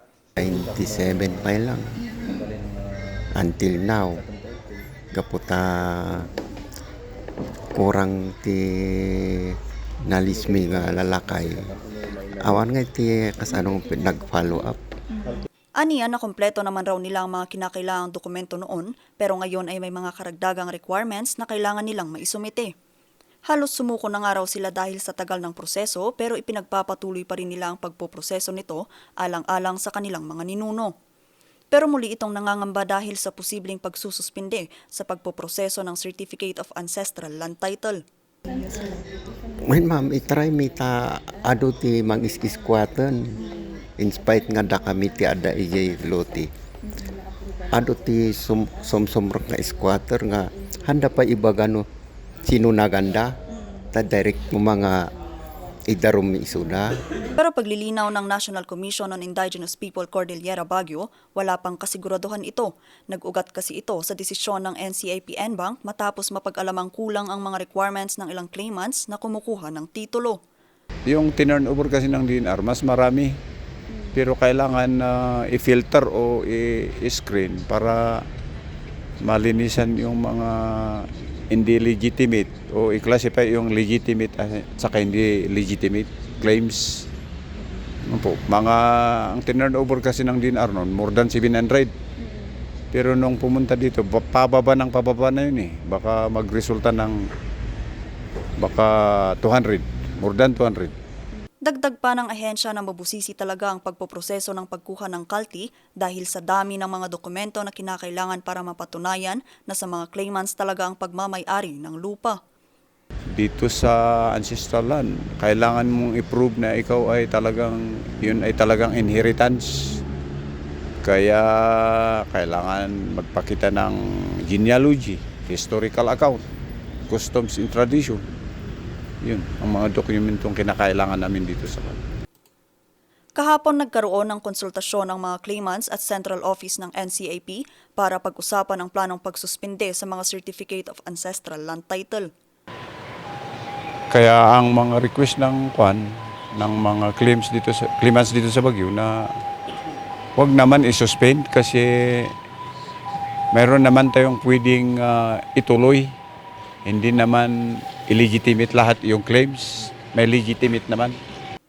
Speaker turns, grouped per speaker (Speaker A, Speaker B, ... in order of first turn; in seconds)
Speaker A: 0.4-2.0, 3.3-4.2, 5.1-6.3, 7.7-11.7, 12.3-14.8, 39.6-43.4, 44.0-46.5, 47.7-51.8, 52.4-53.4, 53.9-55.1, 55.9-57.0
Speaker B: 15.8-22.7, 23.5-30.9, 31.7-38.0, 57.4-70.4, 101.6-112.4, 133.3-142.3
Speaker C: 71.1-73.3, 74.1-78.2, 79.2-87.0, 88.0-91.9, 92.9-97.2, 98.6-100.9, 113.3-120.0, 121.0-126.4, 127.1-128.2, 129.2-132.0, 144.1-149.3, 150.3-152.3, 153.5-156.1, 156.8-161.2